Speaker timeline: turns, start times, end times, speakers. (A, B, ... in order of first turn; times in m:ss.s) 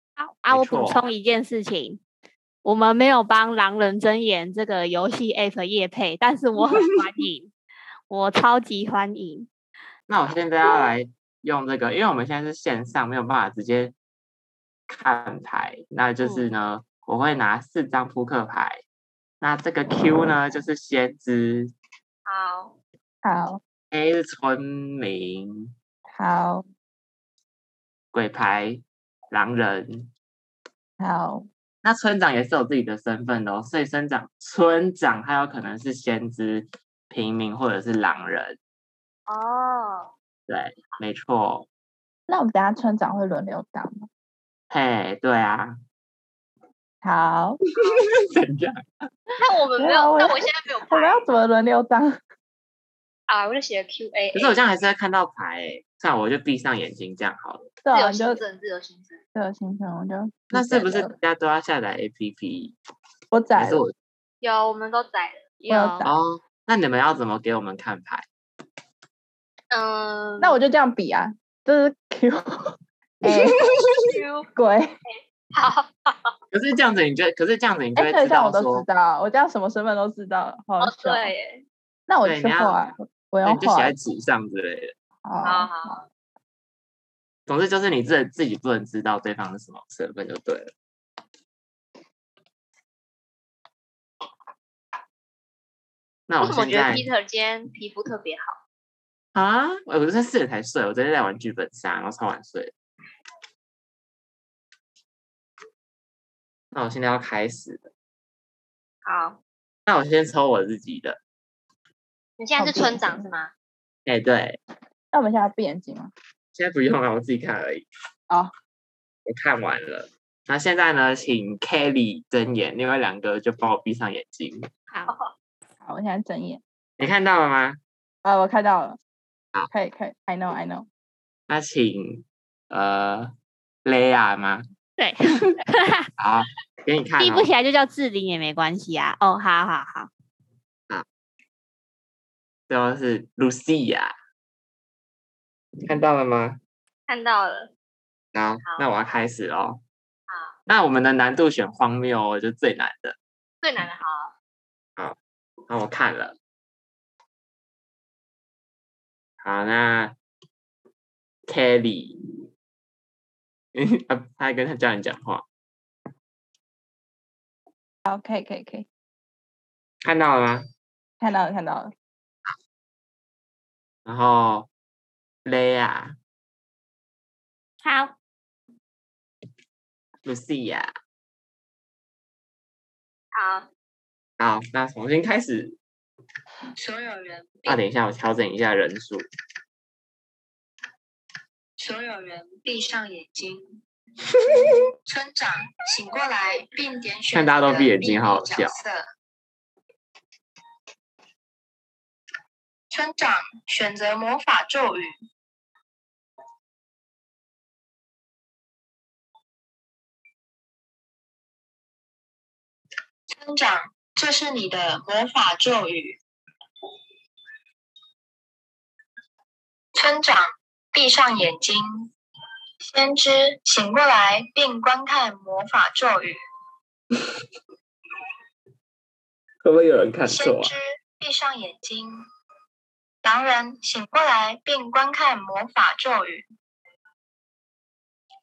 0:00.2-0:02.0 A
0:00.5-0:01.1 B
0:02.6-0:07.5 A
0:08.1-0:09.5 A
0:10.1-0:13.9 B
0:14.9-0:18.8 B
0:19.4-0:21.7 B
0:22.3-0:22.8 C
0:23.2-0:23.6 D
0:23.9-0:25.7 B
0:26.1-0:26.6 D
0:28.1-0:30.1 B
0:31.0-0:31.5 D
0:31.8-0:38.6 B
0:39.3-0:40.1 C
0:40.5-0:41.7 B
0:42.3-0:44.1 D
0:44.7-0:45.7 B
0:47.0-0:47.6 D
0:47.8-0:48.8 B
0:49.4-0:51.2 C
0:49.8-0:52.2 D
0:53.3-0:54.6 C
0:54.3-0:57.7 B
0:57.8-0:58.4 D
0:57.9-0:59.2 C
0:59.4-1:01.2 D
1:00.5-1:02.8 B
1:03.3-1:03.8 D
1:03.6-1:03.9 B
1:04.4-1:05.5 C
1:05.6-1:06.1 A
1:05.7-1:06.1 D
1:06.0-1:08.3 B
1:09.7-1:10.6 C
1:10.4-1:13.6 D
1:14.0-1:14.5 C
1:14.6-1:14.9 D
1:15.2-1:16.3 C
1:16.5-1:18.8 B
1:18.0-1:21.3 D
1:20.8-1:21.6 C
1:22.1-1:24.0 D
1:22.2-1:22.9 B
1:23.4-1:24.9 B
1:25.2-1:26.0 D
1:25.4-1:26.0 C
1:27.5-1:30.7 B
1:36.3-1:37.1 B
1:36.4-1:38.6 C
1:39.4-1:42.7 B
1:46.7-1:47.9 B
1:49.0-1:49.4 C
1:49.9-1:51.2 B
1:52.4-1:53.5 C
1:52.6-1:53.3 D
1:54.1-1:54.6 B
1:55.1-1:56.1 D
1:56.6-1:57.9 B
1:59.3-2:04.7 B
2:05.1-2:05.3 C
2:05.8-2:06.6 D
2:07.0-2:07.8 B
2:08.2-2:09.0 D
2:09.7-2:10.9 D
2:11.5-2:13.3 B
2:13.8-2:14.6 B
2:15.0-2:16.1 A
2:16.2-2:17.5 B
2:17.2-2:20.1 A
2:22.7-2:24.1 B
2:25.8-2:26.6 B
2:27.1-2:27.7 C
2:28.3-2:29.8 B
2:30.3-2:30.6 C
2:30.7-2:33.2 B
2:33.6-2:34.3 C
2:35.7-2:36.4 B
2:39.4-2:40.2 B
2:41.5-2:42.2 B
2:43.7-2:45.4 B
2:48.0-2:48.9 D
2:50.0-2:50.6 B
2:51.2-2:51.9 D
2:54.0-2:54.7 B
2:55.4-2:56.2 B
2:57.8-2:58.1 A
3:00.2-3:00.9 B
3:03.3-3:03.7 C
3:04.4-3:05.8 B
3:06.8-3:07.8 E
3:07.7-3:09.2 B
3:11.8-3:13.8 E
3:14.9-3:19.0 E
3:17.3-3:18.8 B
3:22.9-3:25.2 E
3:33.3-3:36.2 E
3:40.0-3:42.1 E
3:42.8-3:46.4 E
3:49.6-3:50.7 B
3:50.3-3:52.3 E
3:53.2-3:56.5 E